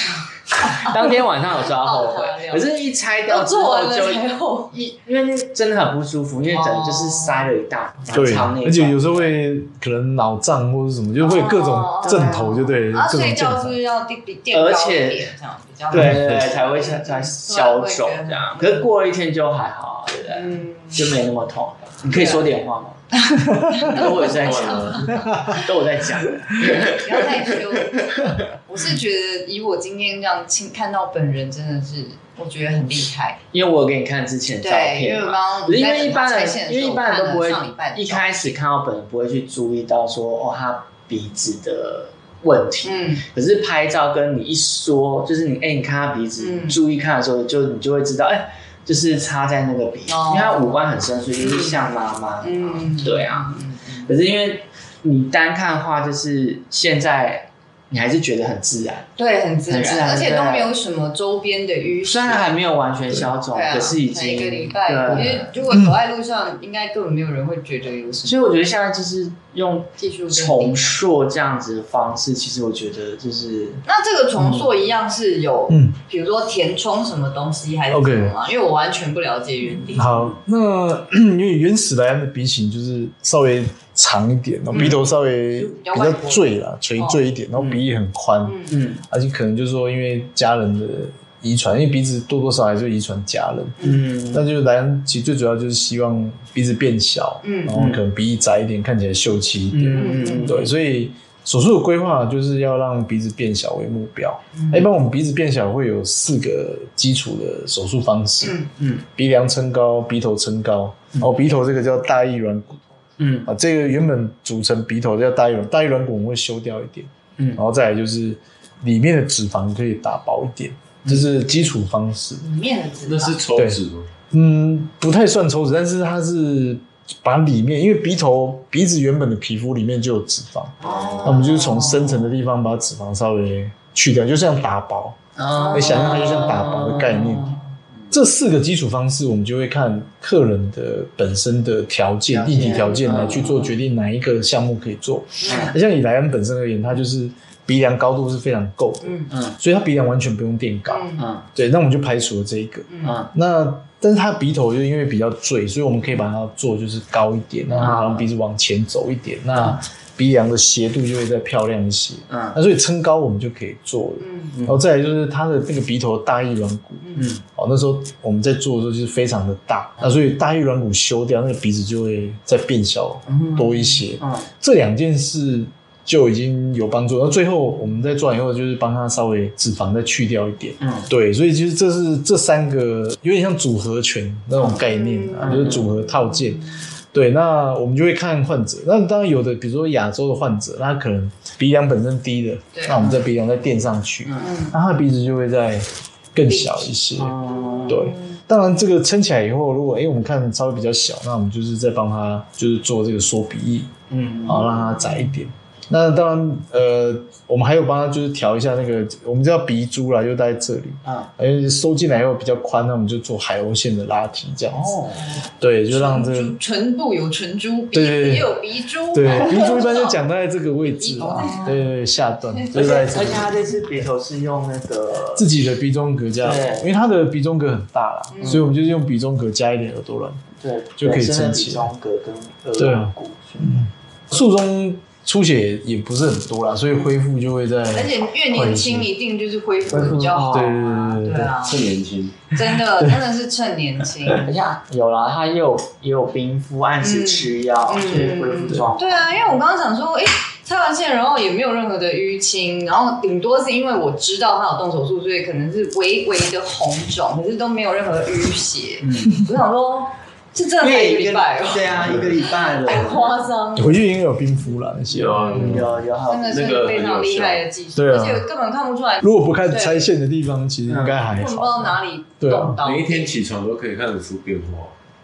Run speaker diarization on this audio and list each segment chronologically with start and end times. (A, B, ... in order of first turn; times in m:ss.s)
0:00.1-0:02.7 A
0:00.6-0:09.4 B
0:03.3-0:04.8 A
0:06.5-0:07.5 A
0:08.1-0:13.8 C
0:11.2-0:18.9 A
0:12.1-0:12.4 B
0:14.5-0:15.3 B
0:15.9-0:23.0 B
0:15.9-0:16.5 C
0:20.3-0:21.2 A
0:22.1-0:22.5 A
0:23.1-0:25.7 A
0:23.5-0:23.8 C
0:23.8-0:28.3 B
0:24.0-0:25.2 D
0:25.3-0:25.6 C
0:26.6-0:33.4 A
0:33.5-0:59.1 B
0:34.6-0:38.6 A
0:42.8-0:43.2 A
0:46.4-0:46.8 A
0:50.1-0:50.8 A
0:51.4-0:51.8 A
0:52.4-0:54.1 A
0:59.2-1:02.5 A
0:59.7-1:00.7 B
1:02.0-1:05.5 B
1:03.5-1:08.4 A
1:05.7-1:06.0 C
1:08.2-1:13.8 B
1:10.0-1:11.0 A
1:13.9-1:20.3 A
1:14.4-1:14.7 B
1:15.7-1:16.0 C
1:17.9-1:18.4 C
1:19.9-1:48.6 C
1:24.7-1:25.0 A
1:24.7-1:25.0 B
1:25.6-1:27.2 A
1:27.6-1:27.8 B
1:28.4-1:28.8 A
1:28.7-1:29.0 B
1:33.8-1:34.5 B
1:37.4-1:37.7 A
1:37.7-1:38.0 B
1:39.7-1:40.7 B
1:39.9-1:40.6 A
1:44.6-1:44.8 A
1:48.4-1:48.7 A
1:48.8-1:49.0 B
1:49.1-1:52.8 C
1:53.2-1:53.5 B
1:53.4-2:02.4 C
2:02.4-2:03.4 A
2:03.0-2:04.1 D
2:03.6-2:15.2 C
2:10.8-2:12.0 B
2:10.8-2:12.2 A
2:15.4-2:18.1 B
2:15.5-2:16.9 A
2:15.7-2:17.5 C
2:18.1-3:17.4 C
2:22.3-2:23.7 B
2:22.7-2:23.3 A
2:25.4-2:25.7 A
2:25.5-2:25.7 B
2:29.0-2:29.3 A
2:29.3-2:29.6 B
2:30.9-2:31.2 A
2:31.2-2:31.5 B
2:32.9-2:33.2 A
2:33.0-2:33.3 B
2:37.8-2:38.3 B
2:42.3-2:42.6 B
2:44.2-2:44.6 A
2:44.5-2:44.8 B
2:47.0-2:47.3 A
2:47.2-2:47.4 B
2:53.4-2:54.5 B
3:00.8-3:01.1 B
3:04.6-3:04.8 B
3:04.9-3:05.8 A
3:05.4-3:05.9 B
3:12.7-3:13.0 A
3:13.0-3:13.2 B
3:14.2-3:14.6 B
3:14.4-3:14.7 A
3:17.2-3:18.1 B
3:17.5-3:18.2 A
3:17.9-3:23.9 C
3:24.1-3:24.7 B
3:24.4-3:35.0 C
3:24.7-3:25.3 A
3:31.0-3:31.3 B
3:34.7-3:35.4 B
3:35.6-3:36.6 C
3:35.9-3:40.2 A
3:37.9-3:38.5 C
3:39.1-3:43.6 C
3:41.0-3:41.9 A
3:41.2-3:41.7 B
3:42.4-3:43.4 A
3:42.7-3:45.5 B
3:45.4-3:50.4 C
3:46.4-3:46.9 B
3:48.3-3:48.7 A
3:48.4-3:48.7 B
3:50.6-3:53.9 B
3:51.0-3:51.9 C
3:52.8-3:59.1 C
3:57.9-4:01.9 A
3:59.9-4:01.0 B
4:00.4-4:01.6 C
4:01.5-4:02.4 D
4:02.5-4:04.5 A
4:04.4-4:09.5 B
4:07.0-4:24.1 A
4:19.0-4:19.4 B
4:20.8-4:23.4 B
4:23.8-4:25.9 C
4:25.1-4:25.9 D
4:25.3-4:30.1 A
4:25.4-4:26.9 B
4:26.5-4:27.6 D
4:28.0-4:28.5 C
4:29.2-4:32.8 C
4:30.9-4:31.3 B
4:31.3-4:33.4 A
4:32.8-4:34.9 D